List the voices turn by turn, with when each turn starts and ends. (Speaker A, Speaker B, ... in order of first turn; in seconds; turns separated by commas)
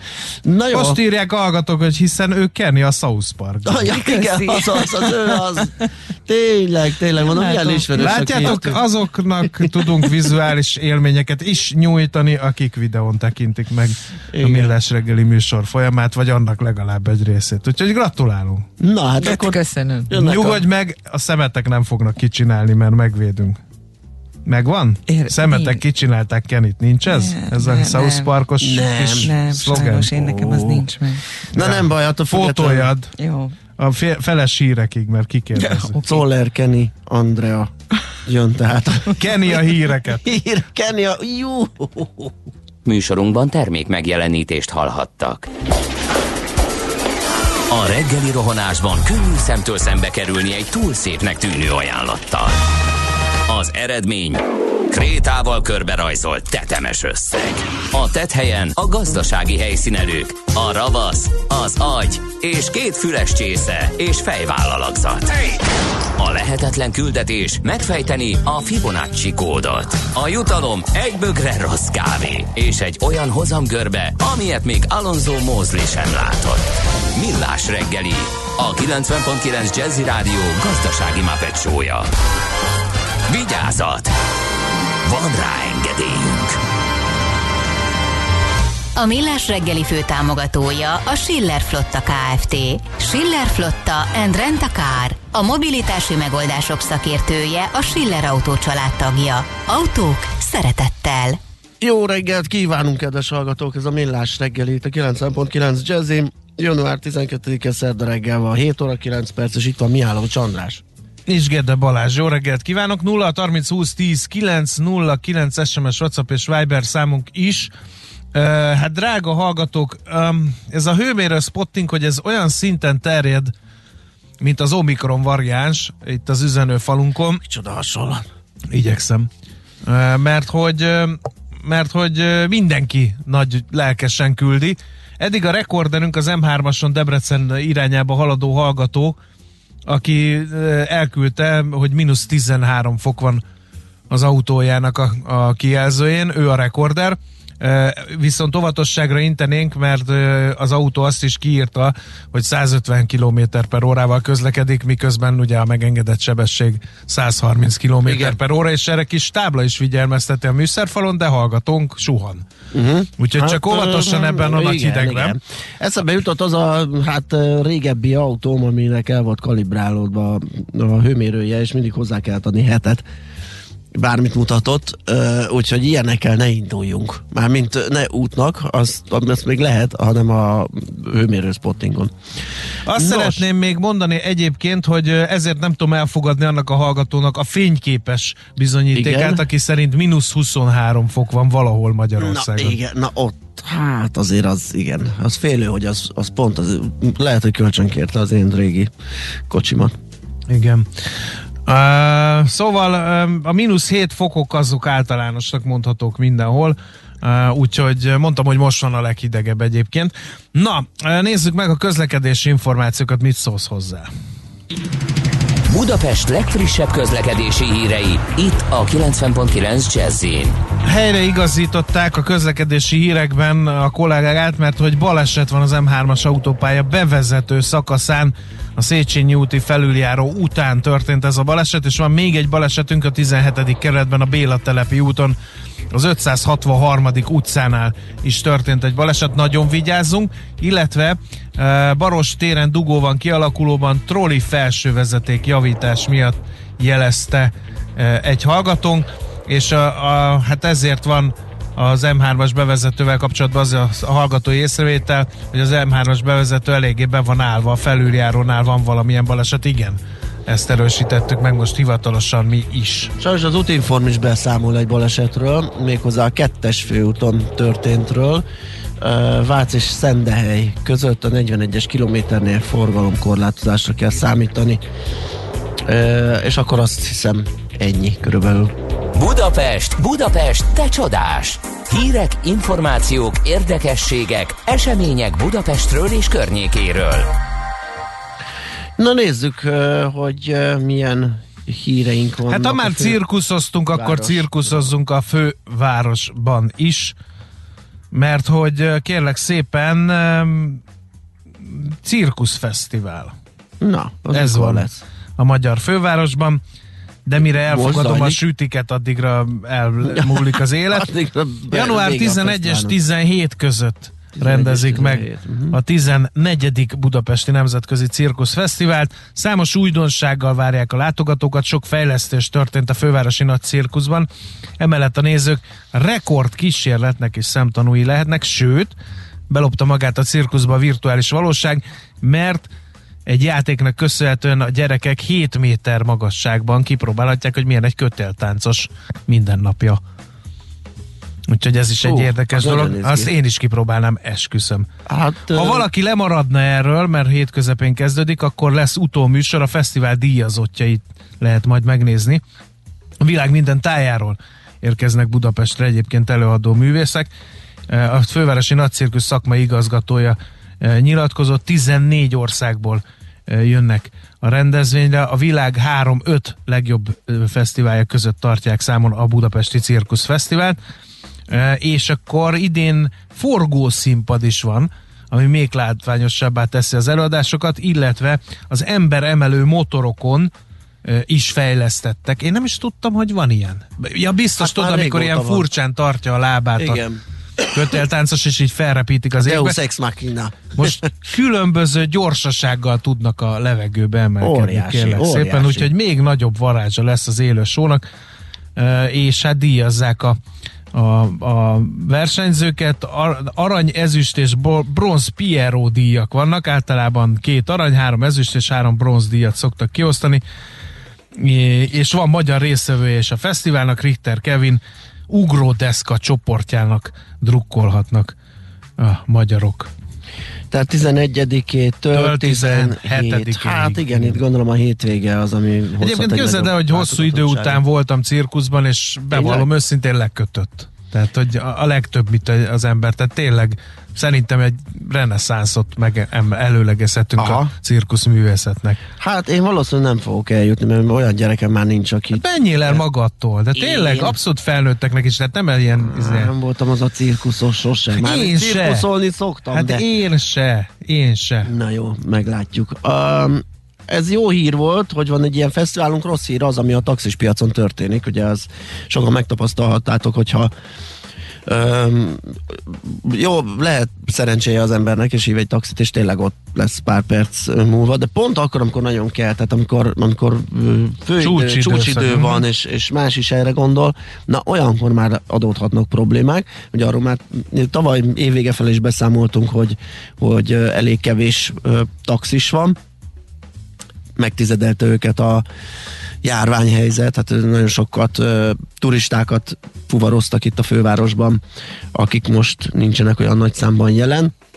Speaker A: 0.5-1.0, Speaker B: 0.7-4.0, Speaker A: 3.6-8.8, Speaker C: 3.9-5.6, Speaker C: 7.2-8.8, Speaker B: 7.9-18.6, Speaker A: 14.3-14.8, Speaker A: 18.8-20.6, Speaker C: 19.2-20.2, Speaker B: 20.1-23.6, Speaker B: 24.5-30.2, Speaker C: 25.1-25.8, Speaker C: 27.1-28.3, Speaker A: 28.6-29.3, Speaker C: 29.2-31.2, Speaker A: 30.2-30.8, Speaker A: 31.5-32.9, Speaker B: 31.6-33.1, Speaker C: 33.2-33.5, Speaker B: 33.8-36.0, Speaker C: 35.6-36.2, Speaker A: 36.0-39.5, Speaker B: 39.1-40.3, Speaker A: 40.2-42.4, Speaker D: 42.9-45.5, Speaker D: 47.7-52.6, Speaker D: 53.5-65.5, Speaker D: 66.2-82.1, Speaker D: 83.3-84.2, Speaker D: 85.0-86.6, Speaker E: 89.0-101.4, Speaker A: 101.8-110.8, Speaker B: 111.3-117.7, Speaker B: 118.3-123.5, Speaker B: 124.4-127.4, Speaker A: 127.4-128.2, Speaker B: 128.7-129.3, Speaker B: 129.9-139.2, Speaker B: 139.9-143.4, Speaker B: 144.1-162.4, Speaker A: 158.1-158.4, Speaker A: 162.7-173.0, Speaker B: 163.2-165.4, Speaker A: 174.0-182.1, Speaker B: 182.9-192.8, Speaker A: 182.9-183.4, Speaker A: 188.9-189.4, Speaker A: 192.2-198.9, Speaker A: 199.5-200.0, Speaker B: 200.5-200.9, Speaker B: 201.7-214.1, Speaker D: 215.7-220.6, Speaker B: 220.8-235.4, Speaker B: 235.9-263.1, Speaker A: 263.2-268.4, Speaker A: 269.0-274.8, Speaker A: 275.9-278.7, Speaker D: 279.1-287.3, Speaker A: 289.0-293.2, Speaker B: 292.5-297.2, Speaker A: 293.9-294.8, Speaker B: 298.1-300.8, Speaker B: 301.6-303.3, Speaker A: 303.8-305.0, Speaker B: 304.3-304.9, Speaker B: 305.4-306.6, Speaker B: 307.3-311.1, Speaker A: 307.4-308.4, Speaker A: 310.0-313.0, Speaker B: 311.7-324.3, Speaker A: 314.4-315.8, Speaker B: 324.8-328.9, Speaker B: 329.5-332.7, Speaker B: 333.3-340.0, Speaker B: 341.5-344.9, Speaker A: 342.0-343.3, Speaker A: 345.1-345.9, Speaker B: 345.5-352.4, Speaker B: 353.2-357.3, Speaker B: 357.9-370.8, Speaker B: 371.5-380.5, Speaker B: 381.1-387.0, Speaker A: 384.6-385.7, Speaker A: 386.8-387.2, Speaker B: 387.7-389.8, Speaker A: 389.4-391.1, Speaker B: 390.8-398.0, Speaker A: 394.4-395.9, Speaker B: 398.8-400.4, Speaker B: 400.9-410.4, Speaker B: 411.4-418.4, Speaker B: 419.0-419.9, Speaker A: 420.7-427.8, Speaker B: 422.1-424.4, Speaker B: 426.0-439.0, Speaker A: 429.3-429.7, Speaker A: 437.4-437.7, Speaker A: 439.2-443.0, Speaker B: 442.3-446.5, Speaker A: 443.8-444.4, Speaker A: 446.0-450.1, Speaker B: 448.2-449.1, Speaker B: 449.7-451.7, Speaker A: 451.6-460.7, Speaker A: 461.7-483.0, Speaker B: 471.4-472.6, Speaker A: 484.4-485.6, Speaker A: 486.4-491.6, Speaker A: 492.1-494.5